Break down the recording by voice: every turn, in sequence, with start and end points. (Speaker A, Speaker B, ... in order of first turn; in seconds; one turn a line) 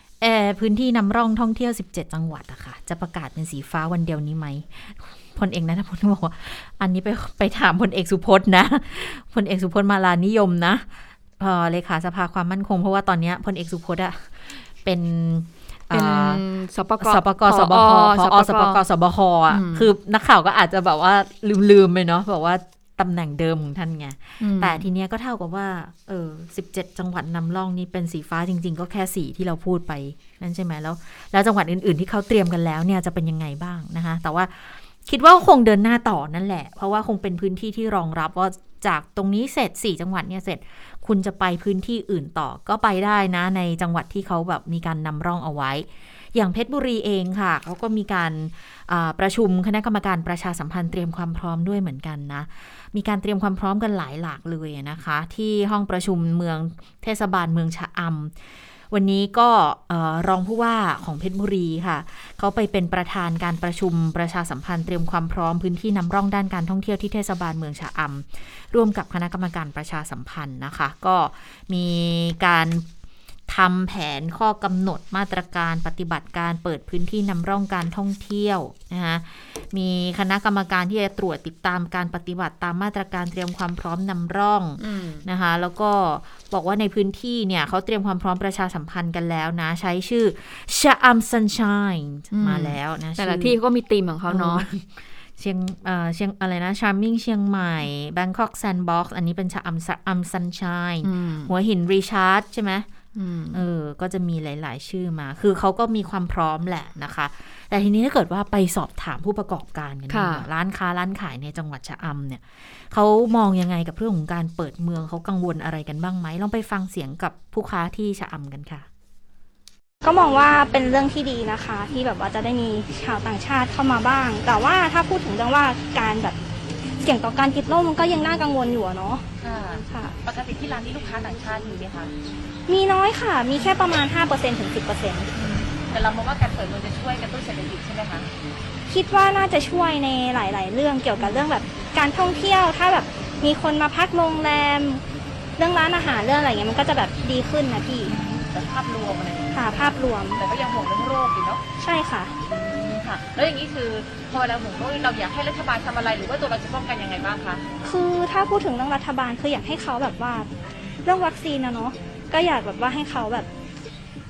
Speaker A: 0.2-16.4
Speaker B: 15.9-18.8
Speaker A: 17.0-58.3
Speaker B: 19.5-19.9
Speaker B: 24.4-24.8
Speaker A: 58.9-72.9
Speaker A: 73.5-93.6
Speaker B: 84.8-85.2
Speaker B: 92.3-94.7
Speaker A: 94.3-102.9
Speaker B: 101.0-101.5
Speaker B: 103.2-103.6
Speaker A: 103.5-118.9
Speaker B: 110.1-110.5
Speaker C: 120.0-126.4
Speaker C: 127.0-129.2
Speaker D: 129.4-132.1
Speaker C: 129.8-130.1
Speaker C: 132.7-135.3
Speaker D: 135.3-138.3
Speaker C: 138.9-145.0
Speaker D: 141.1-141.5
Speaker C: 145.6-148.1
Speaker D: 148.1-151.6
Speaker C: 149.5-150.4
Speaker C: 151.8-152.3
Speaker D: 152.4-157.6
Speaker C: 157.8-160.5
Speaker C: 161.0-163.5